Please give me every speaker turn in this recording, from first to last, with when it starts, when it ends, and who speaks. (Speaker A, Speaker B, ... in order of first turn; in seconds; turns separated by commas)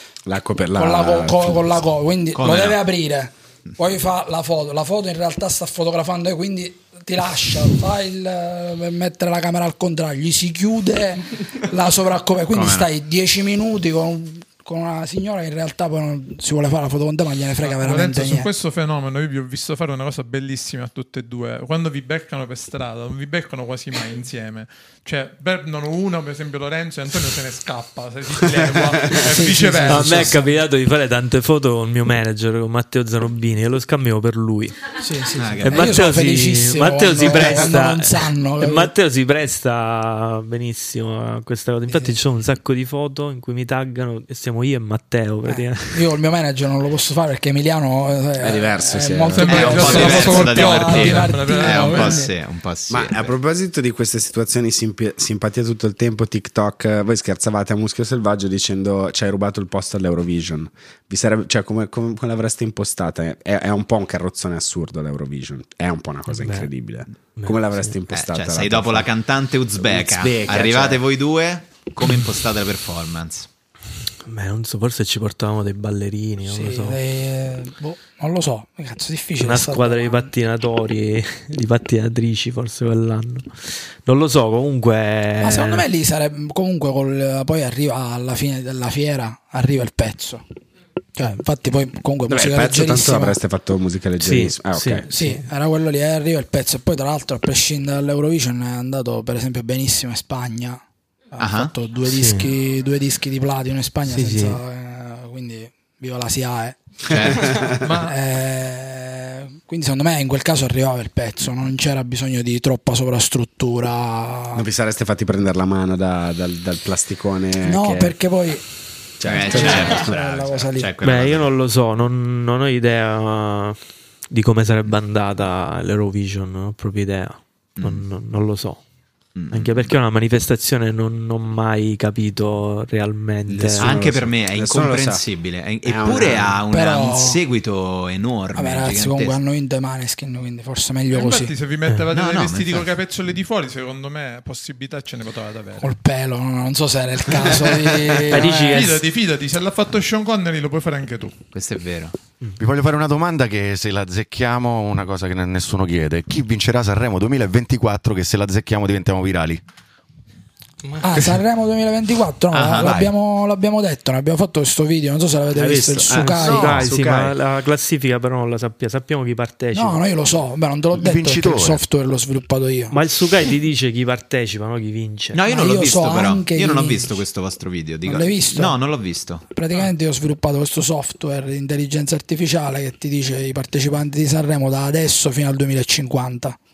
Speaker A: 0.2-1.7, Speaker B: 0.8-18.5, Speaker C: 2.4-2.8, Speaker C: 12.5-12.9, Speaker D: 17.6-30.5, Speaker B: 29.2-30.4, Speaker E: 29.9-34.9, Speaker B: 35.0-38.9, Speaker C: 35.4-36.0, Speaker E: 35.6-46.0, Speaker B: 45.5-52.3, Speaker A: 48.4-50.2, Speaker D: 49.3-52.2, Speaker C: 49.5-53.3, Speaker A: 52.9-69.1, Speaker E: 66.3-66.7, Speaker E: 67.4-68.0, Speaker C: 68.1-73.5, Speaker A: 69.8-71.0, Speaker E: 74.2-77.0, Speaker B: 76.5-80.3, Speaker E: 79.4-85.9, Speaker B: 85.4-90.4, Speaker B: 91.2-93.4, Speaker A: 92.3-95.1, Speaker E: 94.2-95.4, Speaker B: 95.1-100.8, Speaker B: 101.3-106.8, Speaker C: 101.4-101.7, Speaker E: 102.1-102.5, Speaker E: 104.1-104.6, Speaker C: 107.1-107.7, Speaker A: 107.2-107.7, Speaker D: 107.8-108.2, Speaker B: 108.0-114.6, Speaker A: 114.5-118.2, Speaker B: 117.6-118.6, Speaker A: 119.2-120.2, Speaker C: 119.2-121.5, Speaker B: 119.5-120.9, Speaker E: 121.0-128.8, Speaker C: 127.8-128.0, Speaker C: 129.4-129.9, Speaker E: 129.5-134.0, Speaker A: 133.5-135.2, Speaker C: 133.8-139.4, Speaker A: 135.8-136.6, Speaker B: 136.7-137.4, Speaker B: 138.6-141.6, Speaker D: 141.1-145.9, Speaker C: 142.1-142.9, Speaker B: 145.8-149.0, Speaker E: 148.3-149.0, Speaker D: 148.6-151.4, Speaker C: 151.5-152.2, Speaker F: 152.6-159.6, Speaker B: 161.0-166.8, Speaker C: 162.5-163.1, Speaker A: 165.5-167.4, Speaker E: 166.1-170.0, Speaker B: 169.7-173.0, Speaker F: 170.9-171.8, Speaker E: 172.9-175.4, Speaker C: 175.3-179.4, Speaker B: 175.5-177.2, Speaker B: 178.1-178.8, Speaker B: 179.5-186.6